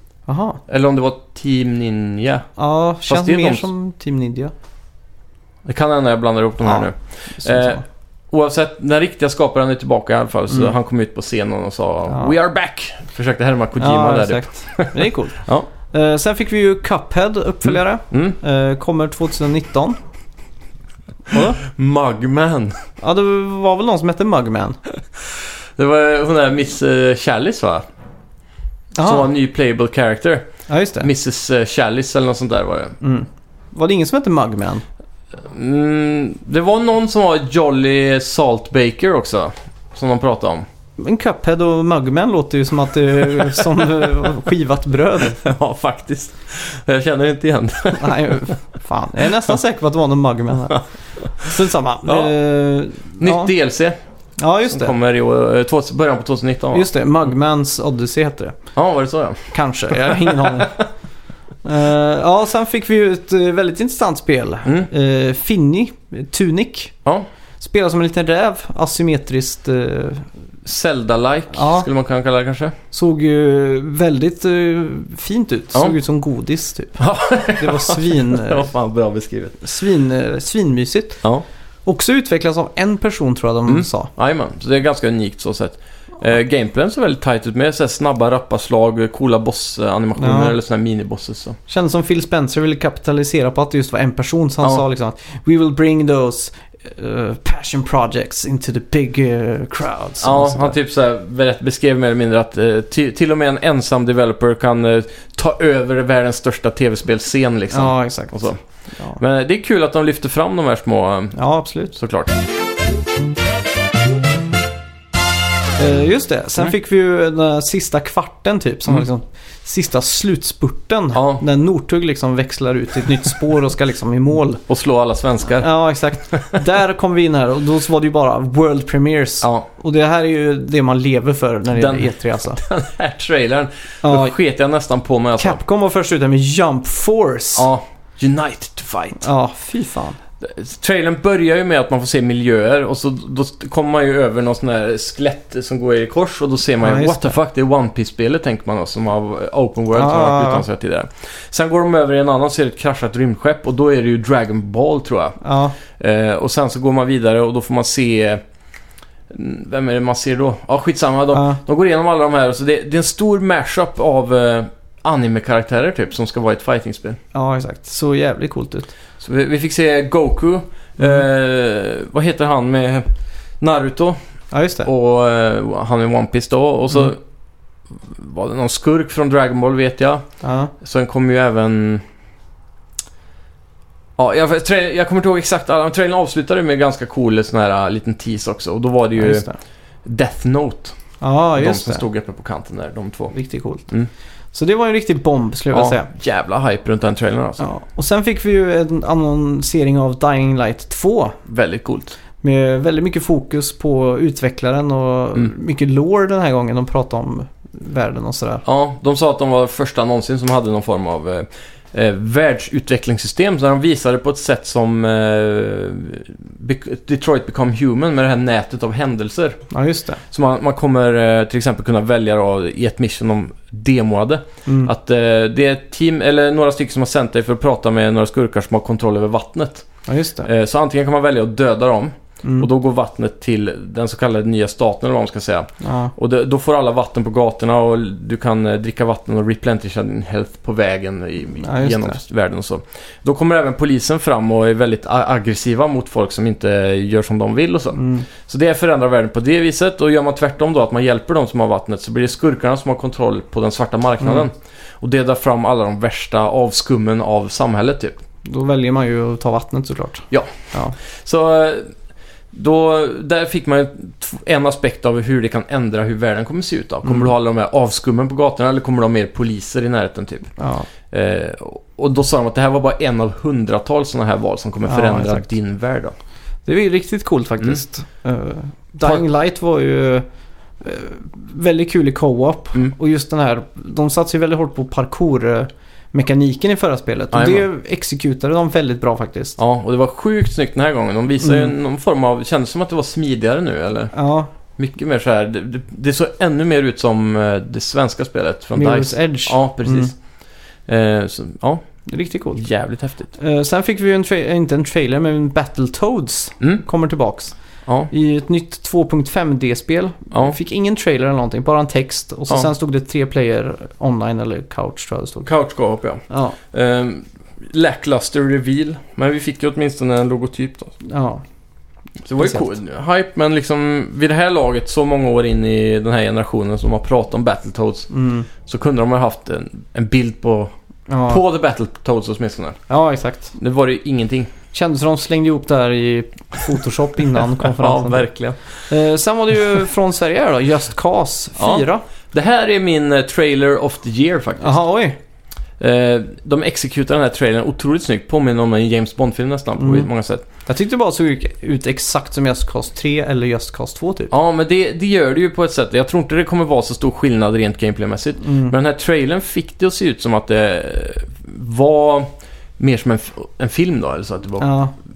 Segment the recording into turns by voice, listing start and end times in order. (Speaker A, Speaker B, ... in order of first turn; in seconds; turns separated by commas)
Speaker A: 0.3-0.6, Speaker B: 0.7-2.5, Speaker A: 2.6-4.5, Speaker B: 3.1-3.7, Speaker B: 5.7-15.7, Speaker A: 6.6-7.8, Speaker A: 13.8-20.0, Speaker B: 17.7-18.4, Speaker A: 21.3-21.6, Speaker B: 21.6-22.8, Speaker A: 23.0-24.8, Speaker B: 25.8-27.9, Speaker A: 28.9-29.3, Speaker B: 29.0-30.5, Speaker A: 30.7-31.1, Speaker B: 31.0-33.0, Speaker A: 33.0-34.8, Speaker B: 35.5-40.7, Speaker A: 41.0-45.4, Speaker B: 45.4-48.5, Speaker A: 48.0-53.5, Speaker B: 52.1-52.3, Speaker B: 53.2-54.0, Speaker A: 54.4-55.0, Speaker B: 54.7-56.9, Speaker A: 56.7-58.6, Speaker B: 58.8-60.7, Speaker A: 59.5-60.8, Speaker A: 61.6-67.0, Speaker A: 67.6-70.3, Speaker B: 70.7-72.8, Speaker A: 71.5-71.9, Speaker A: 72.9-77.0, Speaker B: 77.0-79.6, Speaker A: 77.6-78.7, Speaker A: 79.6-81.2, Speaker A: 81.9-84.1, Speaker B: 83.7-91.6, Speaker A: 90.2-90.5, Speaker A: 91.7-100.8, Speaker B: 100.2-108.6, Speaker A: 107.7-109.2, Speaker B: 109.2-111.4, Speaker A: 111.3-111.9, Speaker B: 111.9-112.4, Speaker A: 115.8-124.6, Speaker B: 121.1-121.4, Speaker B: 124.7-125.7, Speaker A: 125.6-132.6, Speaker B: 126.3-126.6, Speaker B: 131.7-135.6, Speaker A: 134.0-134.3, Speaker A: 135.4-137.7, Speaker B: 137.6-139.3, Speaker A: 139.2-140.2, Speaker B: 140.4-155.4, Speaker A: 146.8-147.4, Speaker A: 149.9-150.7, Speaker A: 155.4-155.8, Speaker B: 155.9-158.4, Speaker B: 159.3-167.2, Speaker A: 161.3-161.6, Speaker A: 167.3-168.9, Speaker B: 169.2-173.1, Speaker B: 173.6-174.2, Speaker A: 174.5-174.9, Speaker B: 174.8-177.2, Speaker B: 177.9-180.2, Speaker A: 180.4-180.7, Speaker B: 180.8-182.0, Speaker B: 184.2-189.5, Speaker A: 189.2-189.6, Speaker B: 190.1-190.9, Speaker A: 191.2-192.1, Speaker B: 191.6-193.3, Speaker A: 193.3-193.9, Speaker A: 194.5-196.1, Speaker B: 195.7-197.6, Speaker A: 197.6-201.4, Speaker B: 201.5-202.2, Speaker A: 202.4-208.6, Speaker B: 208.7-219.6, Speaker A: 219.7-220.2, Speaker B: 220.3-229.9, Speaker A: 224.7-224.9, Speaker A: 230.1-230.5, Speaker B: 230.4-258.2, Speaker A: 235.8-236.1, Speaker A: 241.6-242.2, Speaker A: 247.9-248.3, Speaker A: 254.2-254.5, Speaker A: 258.4-261.0, Speaker B: 260.3-261.9, Speaker B: 262.5-270.5, Speaker A: 267.1-267.3, Speaker A: 270.6-270.9, Speaker B: 271.1-276.1, Speaker A: 274.9-275.5, Speaker A: 276.7-280.3, Speaker A: 280.8-289.6, Speaker B: 287.3-287.6, Speaker B: 289.6-294.1, Speaker A: 291.4-291.7, Speaker A: 294.1-294.5, Speaker B: 294.8-300.1, Speaker A: 298.8-300.1, Speaker B: 300.9-301.8, Speaker A: 302.1-302.6, Speaker B: 302.6-303.3, Speaker A: 303.3-307.6, Speaker A: 308.1-315.5, Speaker B: 315.4-320.9, Speaker A: 316.3-316.6, Speaker A: 321.0-321.4, Speaker B: 322.2-328.1, Speaker A: 322.4-322.7, Speaker A: 328.1-328.5, Speaker B: 328.6-330.7, Speaker A: 331.1-331.4, Speaker B: 331.3-332.8, Speaker A: 332.9-333.6, Speaker B: 333.6-334.5, Speaker A: 334.7-338.3, Speaker B: 337.6-338.6, Speaker A: 338.9-342.0, Speaker B: 341.6-344.8, Speaker A: 344.6-345.2, Speaker B: 345.8-350.4, Speaker A: 349.8-350.1, Speaker A: 350.7-354.3, Speaker B: 354.3-364.7, Speaker A: 358.4-358.8, Speaker A: 364.6-364.9